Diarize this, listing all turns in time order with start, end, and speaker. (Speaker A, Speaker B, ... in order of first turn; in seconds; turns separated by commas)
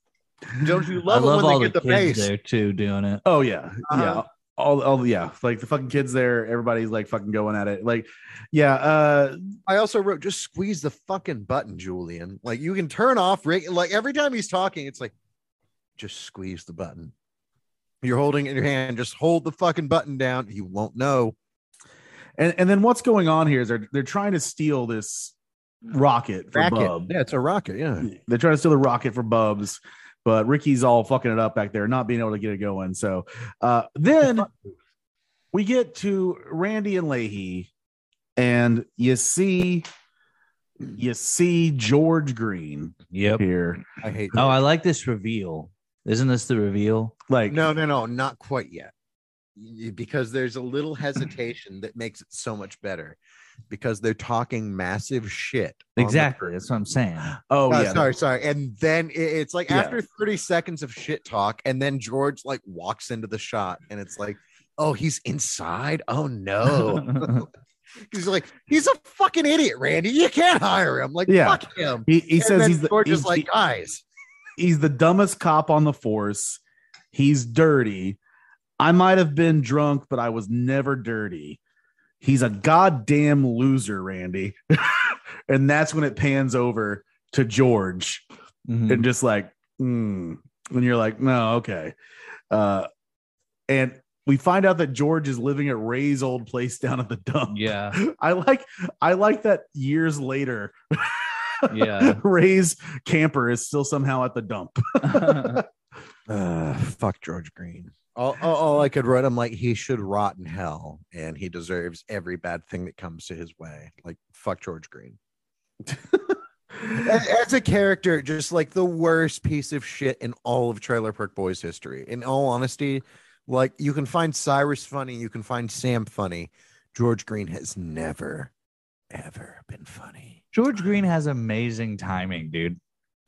Speaker A: 0.6-2.3, Speaker B: 1.1-3.2, Speaker C: 3.2-9.5, Speaker A: 3.9-4.2, Speaker A: 9.7-15.1, Speaker A: 16.0-17.1, Speaker A: 18.0-21.4, Speaker C: 22.4-25.3, Speaker C: 25.9-27.1, Speaker A: 26.5-28.1, Speaker C: 28.0-34.5, Speaker C: 35.5-37.7, Speaker C: 38.4-39.9, Speaker C: 41.0-43.8, Speaker B: 43.1-43.5, Speaker A: 44.0-44.6, Speaker B: 44.4-47.1, Speaker C: 47.3-47.6, Speaker A: 47.5-48.9, Speaker A: 49.6-53.2, Speaker A: 53.7-56.5, Speaker B: 56.0-57.3, Speaker C: 57.3-58.1, Speaker A: 57.7-67.5, Speaker C: 59.7-60.0, Speaker A: 68.1-74.0, Speaker C: 71.3-73.5, Speaker C: 74.6-76.6, Speaker C: 77.1-78.2, Speaker C: 78.8-81.6, Speaker C: 82.2-88.2, Speaker B: 88.7-89.1, Speaker C: 88.9-92.0, Speaker C: 92.5-92.9, Speaker C: 93.7-105.7, Speaker B: 97.5-98.0, Speaker B: 101.7-102.2, Speaker B: 105.0-105.6, Speaker A: 106.3-115.2, Speaker C: 115.9-117.1, Speaker A: 116.9-128.5, Speaker A: 129.1-130.4, Speaker B: 130.5-132.8